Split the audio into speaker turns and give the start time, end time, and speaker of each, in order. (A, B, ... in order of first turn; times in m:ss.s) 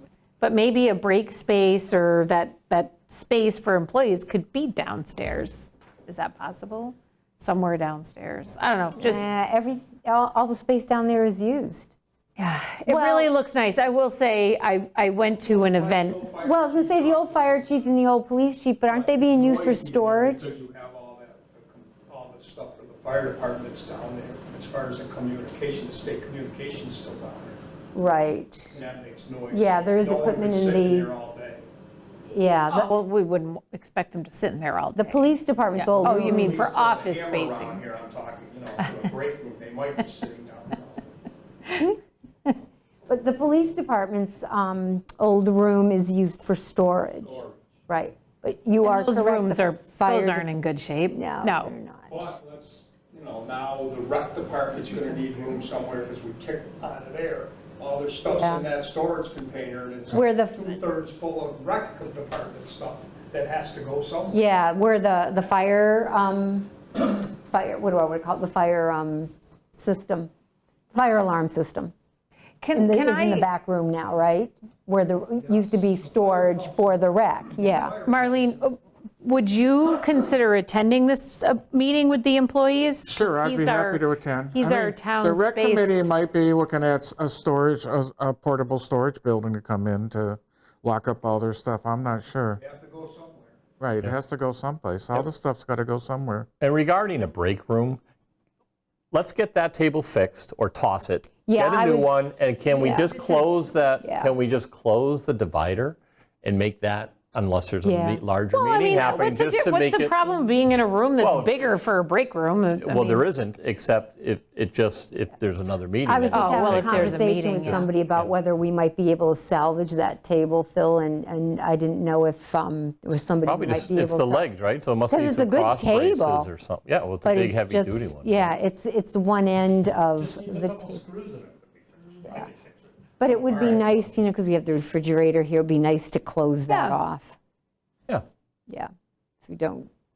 0:00.4-0:09.3 A
0:09.0-0:11.9 B
0:12.4-0:16.3 A
0:12.9-0:13.3 B
0:15.4-0:17.8 C
0:16.4-0:20.5 B
0:18.9-0:27.6 C
0:27.9-0:28.8 B
0:28.7-0:31.6 C
0:29.5-0:31.1 B
0:32.3-0:32.9 B
0:32.7-0:37.8 A
0:35.0-0:36.6 B
0:36.0-0:41.2 C
0:43.1-0:50.5 B
0:47.2-0:47.6 C
0:48.8-0:51.7 A
0:51.1-0:52.3 B
0:52.1-1:04.4 C
0:58.3-0:58.7 B
1:00.1-1:00.8 B
1:04.3-1:10.3 B
1:10.9-1:11.9 B
1:12.6-1:13.5 A
1:12.8-1:18.0 B
1:15.4-1:16.9 C
1:17.5-1:18.6 C
1:18.0-1:26.2 A
1:23.1-1:32.6 D
1:32.6-1:33.6 C
1:33.8-1:36.5 D
1:36.6-1:38.0 E
1:39.1-1:50.2 E
1:41.5-1:42.2 B
1:42.7-1:43.1 B
1:43.1-1:43.6 A
1:44.0-1:44.3 B
1:47.8-1:48.2 B
1:48.5-1:53.2 A
1:51.2-1:51.8 E
1:52.8-1:58.3 E
1:56.1-2:04.5 B
1:56.3-1:57.9 A
2:03.4-2:08.5 E
2:05.1-2:06.5 B
2:07.2-2:11.0 B
2:13.2-2:17.4 B
2:16.7-2:17.0 A
2:19.4-2:19.9 B